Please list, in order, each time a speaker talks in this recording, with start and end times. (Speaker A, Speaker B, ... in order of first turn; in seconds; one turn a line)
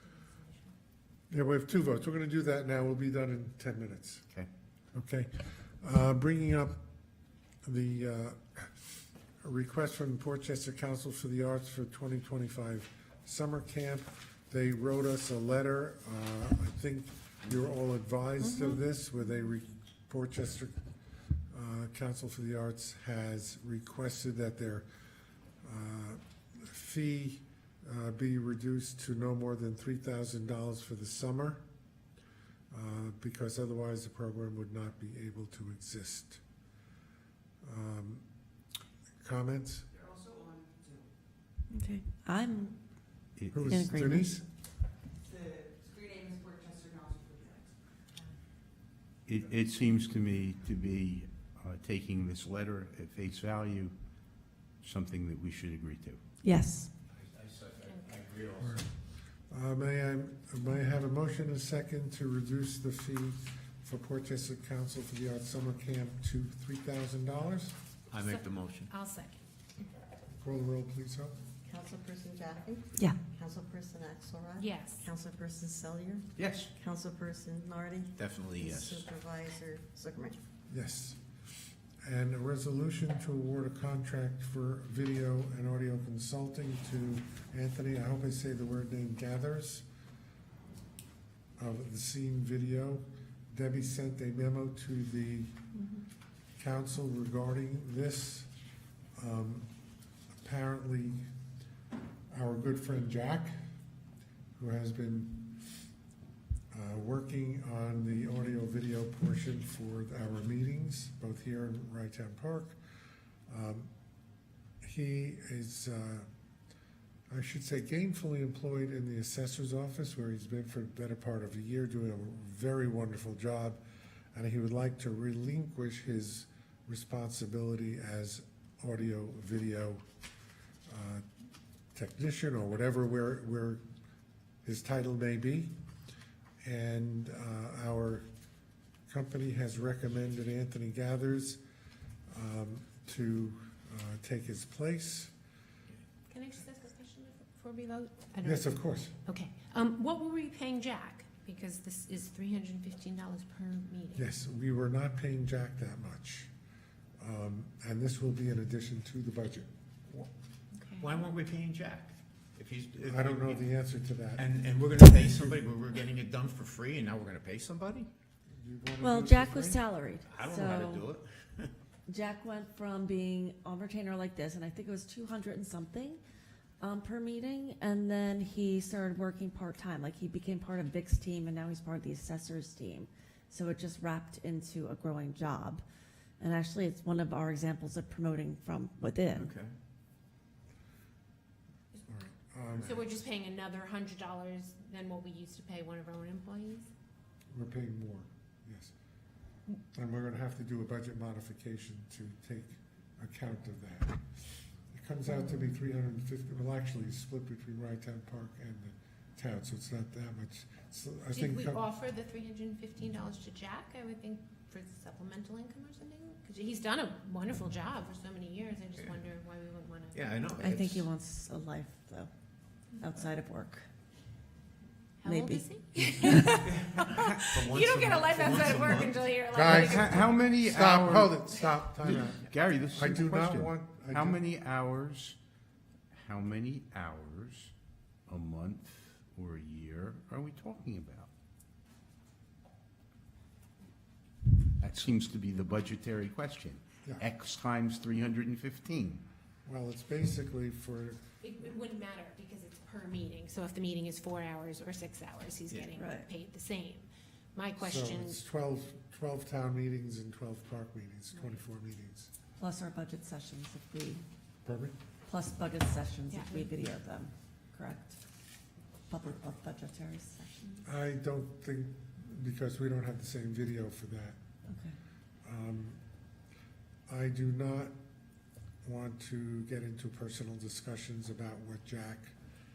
Speaker A: 0.2-0.7
Speaker B: 1.3-4.2
Speaker B: 4.9-6.8
Speaker B: 7.6-20.8
Speaker A: 18.5-18.7
Speaker B: 21.5-24.9
Speaker B: 25.6-31.6
Speaker B: 32.7-36.4
Speaker B: 37.6-38.2
Speaker B: 39.2-39.9
Speaker C: 41.7-42.7
Speaker D: 43.4-43.8
Speaker B: 43.5-44.4
Speaker C: 43.7-44.4
Speaker D: 49.3-53.9
Speaker D: 54.8-56.2
Speaker C: 56.4-56.9
Speaker E: 57.1-58.8
Speaker B: 58.6-58.9
Speaker B: 59.5-67.7
Speaker E: 68.1-68.9
Speaker A: 68.2-69.4
Speaker B: 70.3-71.3
Speaker F: 71.6-80.4
Speaker A: 74.6-75.1
Speaker E: 76.4-76.7
Speaker E: 78.2-79.1
Speaker B: 80.7-81.2
Speaker B: 82.0-89.8
Speaker B: 91.6-95.6
Speaker B: 96.6-98.5
Speaker B: 99.2-99.7
Speaker B: 100.4-101.3
Speaker B: 102.3-103.5
Speaker B: 104.6-105.6
Speaker B: 106.7-112.8
Speaker B: 113.5-113.9
Speaker B: 114.8-116.3
Speaker B: 117.3-123.8
Speaker B: 124.3-130.0
Speaker B: 130.9-131.2
Speaker B: 131.9-133.8
Speaker B: 134.6-135.7
Speaker B: 136.6-138.2
Speaker B: 139.1-141.6
Speaker B: 142.3-145.3
Speaker A: 146.3-154.3
Speaker B: 148.4-149.1
Speaker B: 154.1-156.5
Speaker B: 157.2-160.3
Speaker A: 160.8-161.2
Speaker E: 161.0-163.6
Speaker B: 163.0-164.4
Speaker E: 164.3-168.1
Speaker B: 168.5-169.8
Speaker C: 169.0-171.1
Speaker E: 170.3-171.7
Speaker C: 172.1-176.2
Speaker C: 176.8-185.8
Speaker C: 186.4-189.5
Speaker E: 189.3-189.7
Speaker A: 191.9-192.3
Speaker B: 192.1-193.0
Speaker A: 192.8-196.9
Speaker B: 197.5-198.9
Speaker B: 199.9-204.3
Speaker B: 204.9-211.8
Speaker A: 211.3-220.3
Speaker E: 220.1-221.1
Speaker C: 220.6-222.3
Speaker C: 223.0-223.8
Speaker A: 225.2-230.4
Speaker C: 225.2-226.8
Speaker E: 227.5-229.5
Speaker B: 229.5-234.4
Speaker D: 229.6-231.4
Speaker D: 232.5-235.4
Speaker D: 236.1-237.7
Speaker D: 238.3-241.3
Speaker D: 244.8-249.2
Speaker B: 249.7-251.2
Speaker A: 251.4-258.4
Speaker C: 255.9-256.2
Speaker B: 257.8-262.3
Speaker A: 261.3-261.6
Speaker C: 262.6-264.2
Speaker B: 264.6-264.9
Speaker C: 265.2-268.2
Speaker A: 266.3-266.7
Speaker C: 269.1-270.8
Speaker B: 270.8-274.4
Speaker C: 274.7-275.0
Speaker B: 275.4-276.0
Speaker B: 277.1-277.9
Speaker B: 278.8-282.3